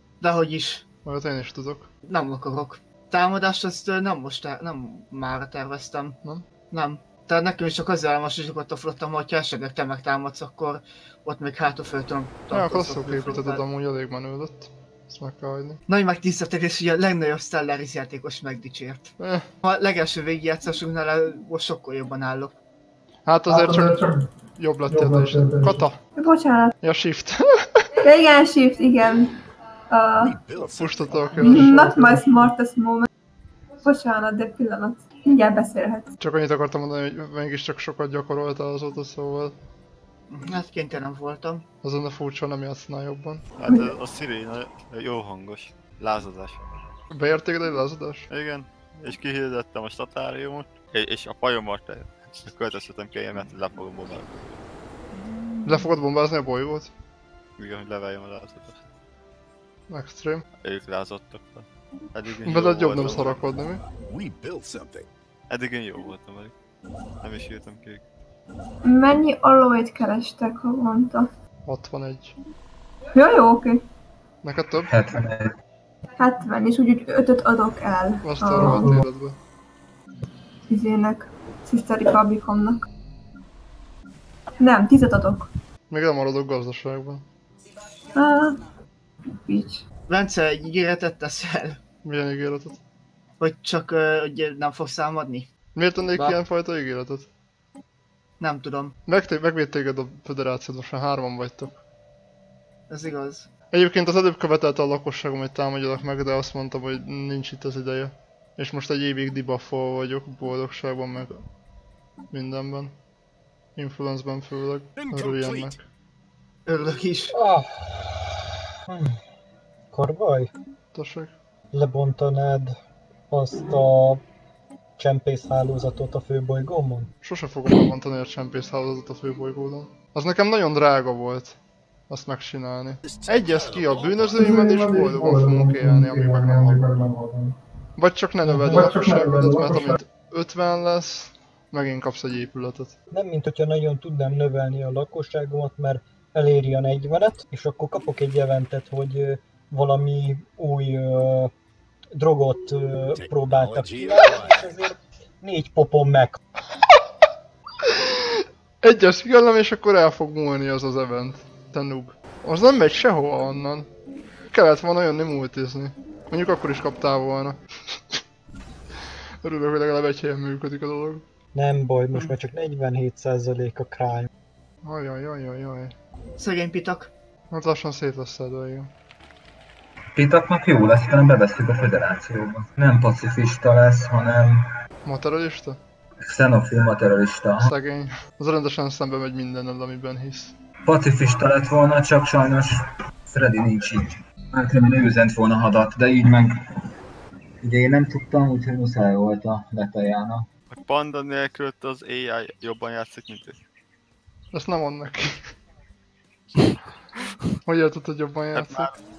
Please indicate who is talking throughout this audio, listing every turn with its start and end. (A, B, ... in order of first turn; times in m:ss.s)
0:00.2-0:00.8 A
0:01.0-0:01.9 B
0:02.1-0:06.2 A
0:06.7-0:13.6 A
0:12.5-0:15.8 B
0:15.9-0:19.1 A
0:19.2-0:19.5 B
0:19.6-0:22.5 A
0:23.2-0:26.0 B
0:26.2-0:26.7 C
0:26.8-0:27.9 B
0:28.0-0:30.4 C
0:30.2-0:31.6 D
0:30.6-0:32.2 B
0:31.4-0:33.1 C
0:33.8-0:36.1 C
0:36.2-0:39.5 B
0:40.3-0:41.6 A
0:41.8-0:43.4 B
0:43.6-0:46.6 E
0:47.1-0:48.3 B
0:48.3-0:54.5 E
0:55.6-0:56.9 B
0:57.6-0:58.8 E
0:59.9-1:00.4 B
1:00.6-1:03.4 E
1:02.4-1:03.8 B
1:03.9-1:05.1 D
1:05.5-1:06.5 E
1:07.2-1:08.0 E
1:08.8-1:11.3 C
1:11.6-1:12.4 B
1:13.1-1:13.8 C
1:14.4-1:14.9 B
1:14.9-1:15.5 F
1:16.2-1:19.0 C
1:18.2-1:19.4 B
1:20.7-1:22.8 C
1:24.6-1:25.5 C
1:25.9-1:27.2 B
1:28.2-1:28.6 C
1:29.3-1:29.8 C
1:30.1-1:31.8 A
1:32.0-1:32.8 B
1:33.4-1:35.5 A
1:35.7-1:37.3 B
1:38.4-1:38.9 A
1:39.1-1:41.8 B
1:42.9-1:43.5 A
1:43.7-1:51.4 B
1:52.3-1:52.9 B
1:53.8-1:55.8 B
1:55.0-1:55.7 D
1:56.7-1:57.3 A
1:57.3-1:59.2 G
1:59.9-2:00.5 G
2:00.9-2:01.3 B
2:01.7-2:02.8 G
2:03.3-2:04.2 G
2:05.0-2:07.1 G
2:07.2-2:11.6 B
2:12.1-2:17.4 B
2:13.0-2:14.6 D
2:18.0-2:22.9 B
2:18.5-2:19.0 G
2:23.1-2:31.5 G
2:32.1-2:36.4 G
2:33.1-2:34.7 D
2:37.8-2:43.9 B
2:44.5-2:47.6 B
2:49.4-2:51.2 B
2:51.5-2:54.3 G
2:54.8-2:55.9 B
2:56.4-2:57.1 A
2:57.5-2:58.9 B
3:00.1-3:04.7 F
3:05.0-3:05.8 B
3:06.2-3:07.7 F
3:07.6-3:10.5 B
3:10.8-3:16.6 F
3:17.6-3:20.4 F
3:20.7-3:23.6 E
3:24.5-3:25.5 B
3:27.6-3:28.9 B
3:28.5-3:28.9 E